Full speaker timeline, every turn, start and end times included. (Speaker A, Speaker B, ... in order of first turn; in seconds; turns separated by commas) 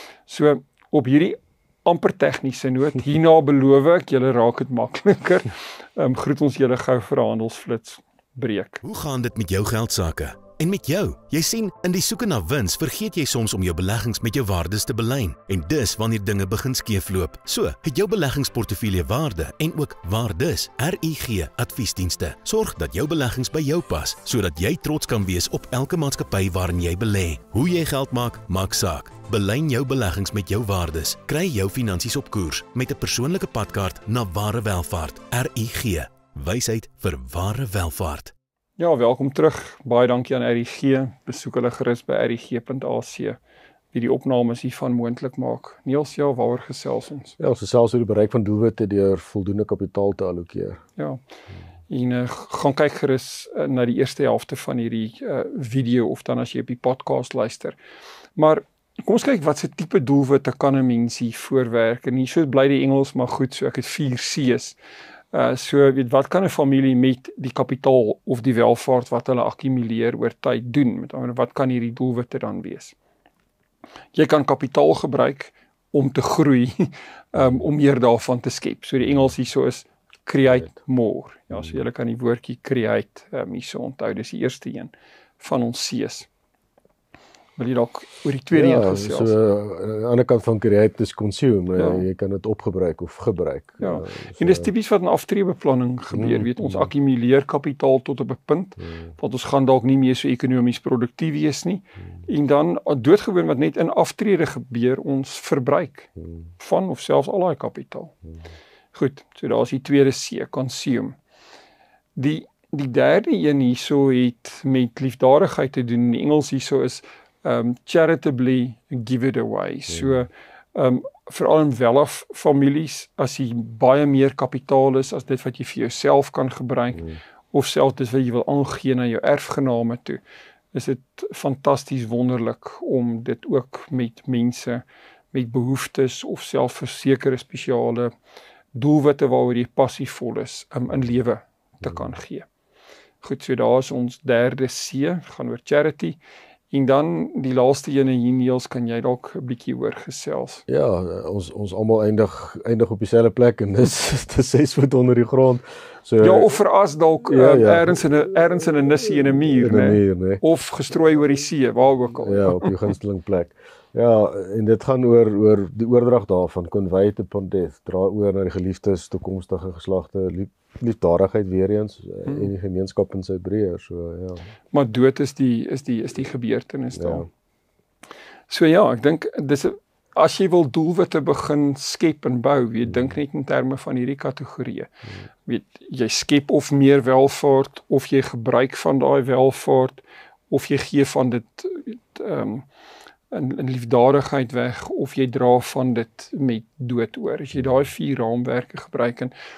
Speaker A: 0.3-8.8, Speaker B: 8.8-38.3, Speaker A: 38.8-43.4, Speaker A: 43.9-47.4, Speaker C: 47.4-50.8, Speaker A: 51.0-51.2, Speaker A: 51.9-57.8, Speaker A: 58.4-64.8, Speaker A: 65.3-73.0, Speaker A: 74.1-86.3, Speaker A: 87.6-89.4, Speaker C: 88.5-94.7, Speaker A: 91.8-92.1, Speaker A: 93.8-108.1, Speaker C: 96.1-96.9, Speaker C: 98.8-99.1, Speaker A: 108.9-111.2, Speaker A: 112.2-130.2, Speaker C: 119.9-120.3, Speaker A: 130.7-138.1, Speaker A: 138.7-142.5, Speaker A: 143.2-146.2, Speaker A: 146.7-150.6, Speaker C: 150.7-156.6, Speaker A: 156.2-162.9, Speaker C: 157.2-158.0, Speaker C: 159.6-160.4, Speaker C: 162.2-174.5, Speaker A: 172.2-172.5, Speaker A: 174.7-177.3, Speaker C: 176.9-177.3, Speaker A: 178.5-192.7, Speaker A: 193.3-199.3